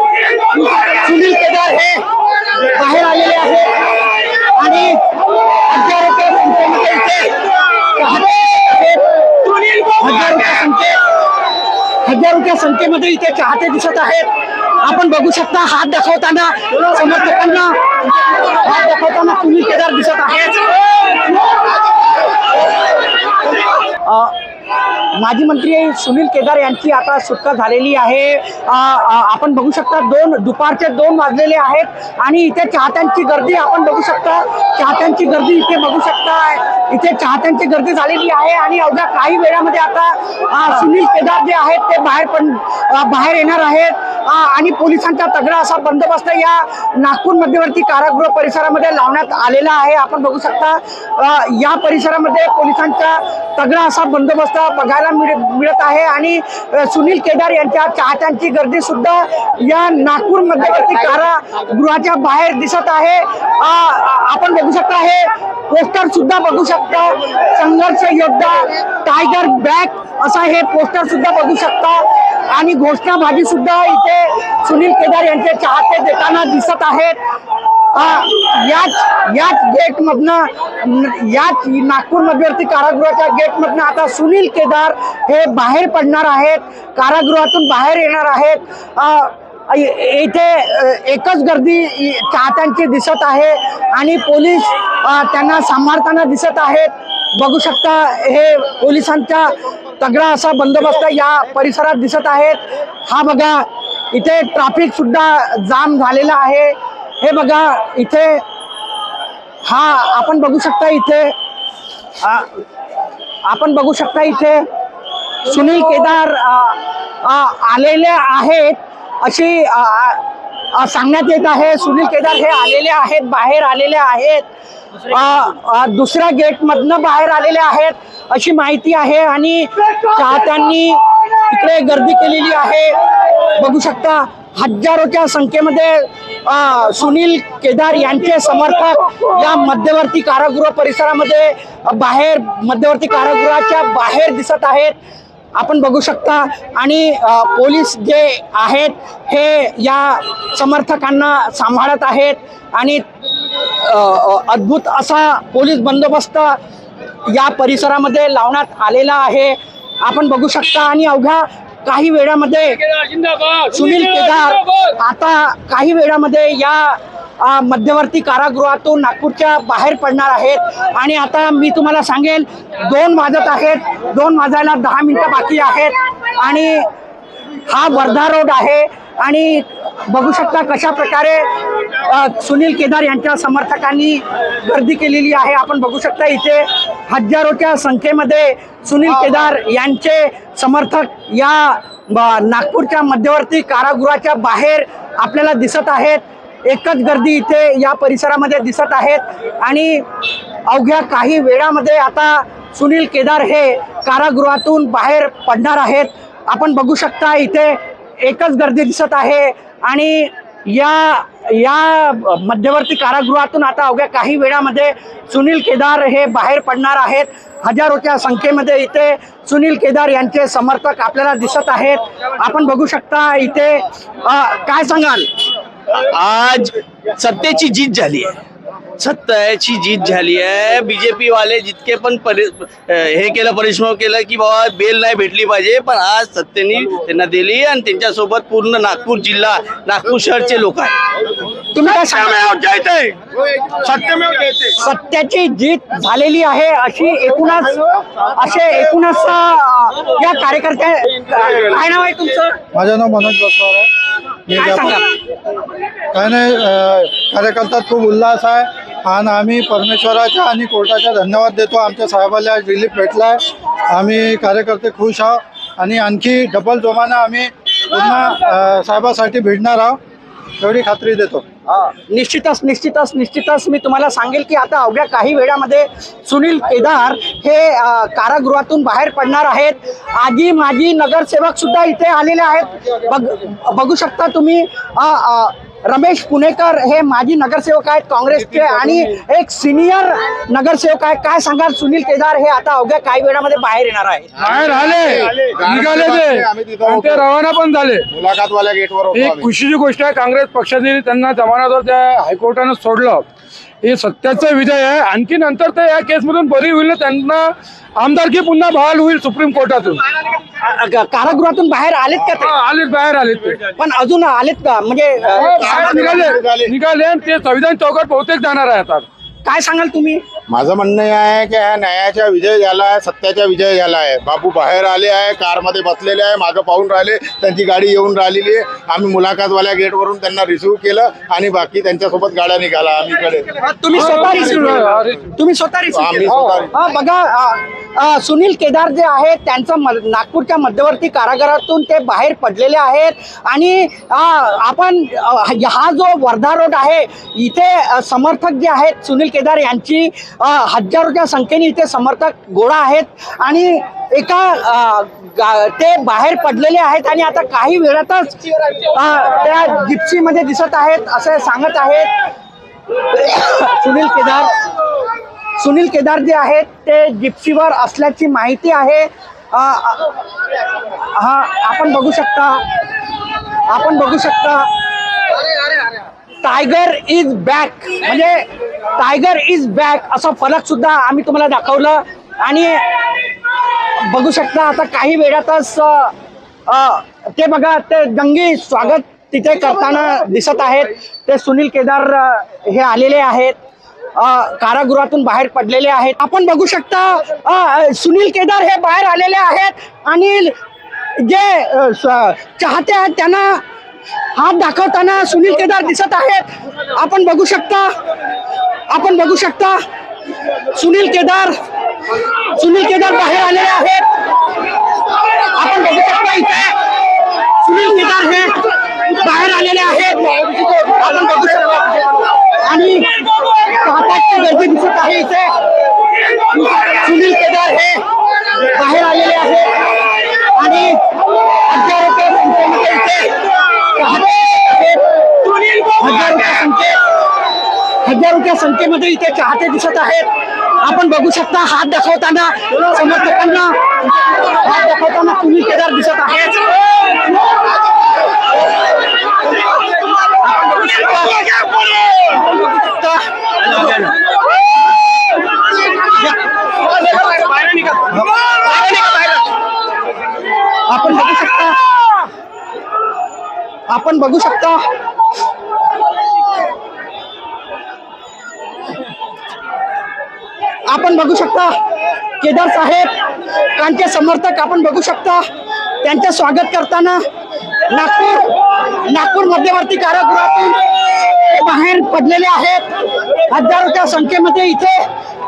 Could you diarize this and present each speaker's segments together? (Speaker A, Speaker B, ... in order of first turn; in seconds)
Speaker A: 0.3-5.0, 5.5-11.0, 12.0-20.8, 23.8-24.3, 25.0-77.2, 77.9-108.4, 109.6-111.3, 112.2-112.6, 113.4-114.7, 115.4-124.5, 125.0-144.9, 145.6-156.6, 157.2-176.8, 177.7-200.1, 200.7-225.3, 241.7-242.5, 244.7-252.6, 254.5-255.1, 271.8-294.3, 310.4-312.6, 313.7-316.3, 319.4-320.2, 333.6-362.1, 362.9-364.5, 365.6-370.1, 370.7-372.6, 373.7-374.7, 376.4-382.9, 383.8-386.1, 386.7-393.6, 394.1-400.6, 401.2-403.6, 404.3-407.9, 408.9-409.8, 410.6-411.6, 412.4-414.1, 415.3-425.6, 426.4-428.0, 428.6-431.0, 431.6-437.0, 438.0-446.8, 450.4-454.0, 458.7-459.1, 460.9-461.8, 463.9-464.8, 470.9-471.8, 472.4-473.1, 473.8-475.4, 476.0-477.2, 477.9-482.9, 483.4-485.1
Speaker B: 163.1-163.5, 294.4-298.1, 299.1-303.2, 303.8-310.0, 312.4-313.7, 315.4-319.1, 334.0-335.2
Speaker C: 226.1-228.4, 229.0-241.0, 241.8-244.6
Speaker D: 252.7-253.9, 254.5-255.0, 256.1-270.0, 270.6-271.4
Speaker E: 294.4-297.3, 298.1-299.5, 315.6-316.7, 320.5-333.5, 335.9-336.7